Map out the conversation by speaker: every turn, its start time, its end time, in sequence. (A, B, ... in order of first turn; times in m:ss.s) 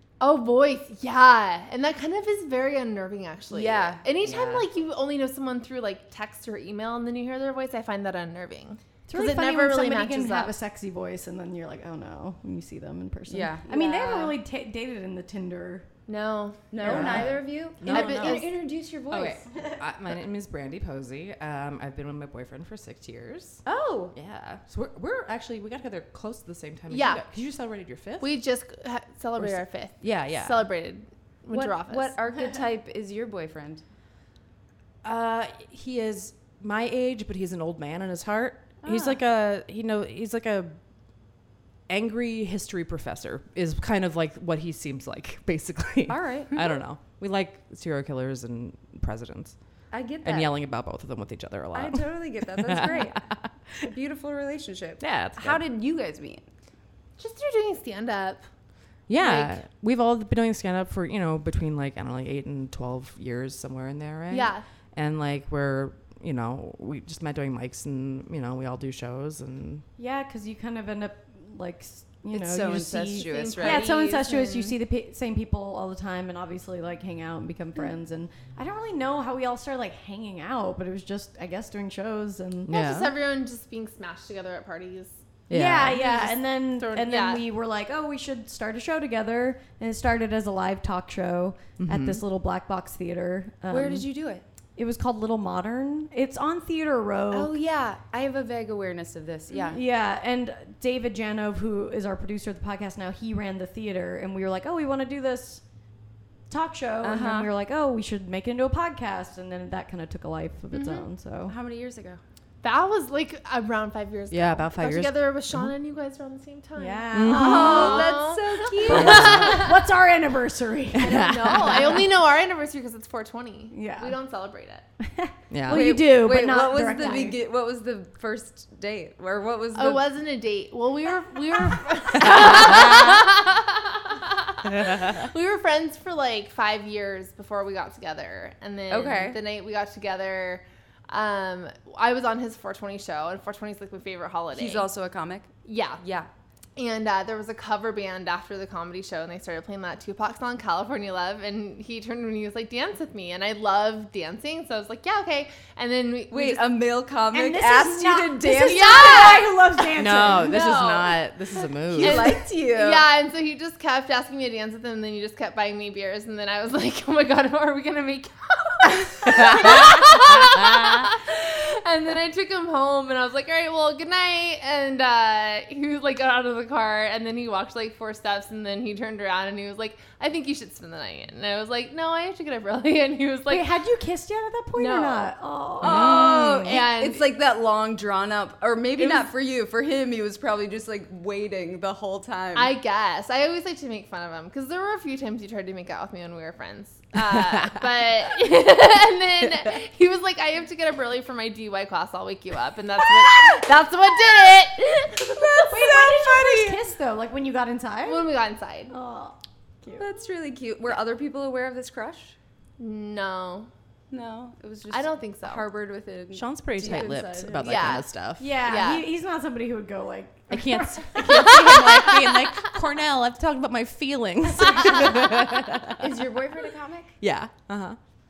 0:00.2-0:10.5 A
0:03.5-0:04.7 B
0:09.1-0:15.9 C
0:13.3-0:14.4 B
0:16.1-0:18.5 A
0:16.7-0:19.5 B
0:16.8-0:18.5 D
0:16.9-0:17.3 C
0:19.1-0:23.6 D
0:23.7-0:24.1 B
0:24.1-0:28.3 D
0:26.9-0:27.2 A
0:28.2-0:32.4 A
0:29.4-0:30.7 D
0:31.5-0:33.8 B
0:35.0-0:40.8 D
0:38.8-0:39.2 B
0:41.9-0:49.6 D
0:46.1-0:46.7 B
0:49.9-0:50.5 B
0:50.2-0:53.5 D
0:51.7-0:53.2 B
0:53.8-0:56.4 B
0:55.0-0:55.6 D
0:57.2-0:58.5 A
0:59.1-1:09.8 D
0:59.2-0:59.6 A
1:04.3-1:04.6 A
1:10.0-1:22.7 C
1:12.3-1:13.9 B
1:13.3-1:14.8 A
1:22.7-1:23.1 D
1:22.7-1:25.2 A
1:25.5-1:26.0 D
1:25.5-1:34.1 C
1:25.9-1:27.4 A
1:31.8-1:32.2 D
1:33.7-1:34.4 B
1:34.8-1:37.5 C
1:37.3-1:39.8 B
1:39.5-1:39.8 A
1:39.7-1:45.6 C
1:46.5-1:51.5 C
1:47.0-1:47.5 B
1:50.7-1:52.2 B
1:52.6-1:59.8 A
1:54.3-1:55.7 D
1:56.8-1:58.1 C
1:57.1-1:57.8 D
1:57.3-1:59.5 B
1:58.8-2:01.2 C
1:58.9-1:59.6 D
2:01.0-2:02.1 D
2:01.0-2:04.8 A
2:03.7-2:04.2 C
2:05.0-2:07.4 C
2:05.5-2:05.9 D
2:05.7-2:10.0 B
2:09.8-2:24.9 A
2:12.2-2:13.2 D
2:14.8-2:15.2 D
2:18.9-2:19.4 B
2:24.5-2:26.3 B
2:25.6-2:26.0 A
2:26.8-2:36.6 A
2:36.3-2:39.5 B
2:37.3-2:40.6 C
2:38.6-2:39.5 A
2:40.0-2:42.3 D
2:40.4-3:03.8 A
2:41.8-2:43.1 B
2:49.2-2:51.1 D
3:03.5-3:06.6 C
3:04.8-3:05.3 A
3:05.8-3:12.7 B
3:05.9-3:06.7 D
3:05.9-3:07.3 A
3:09.0-3:09.3 A
3:12.6-3:25.9 A
3:25.3-3:26.8 B
3:25.7-3:28.3 C
3:28.0-3:28.9 A
3:28.9-3:30.1 C
3:30.0-3:32.4 B
3:32.8-3:33.7 A
3:34.1-3:37.4 B
3:34.9-3:35.6 A
3:36.3-3:38.5 D
3:36.8-3:38.1 A
3:36.9-3:37.8 C
3:38.4-3:41.9 C
3:38.6-3:39.0 A
3:40.5-3:46.1 D
3:41.4-3:42.3 A
3:46.0-3:47.2 B
3:47.2-3:48.0 D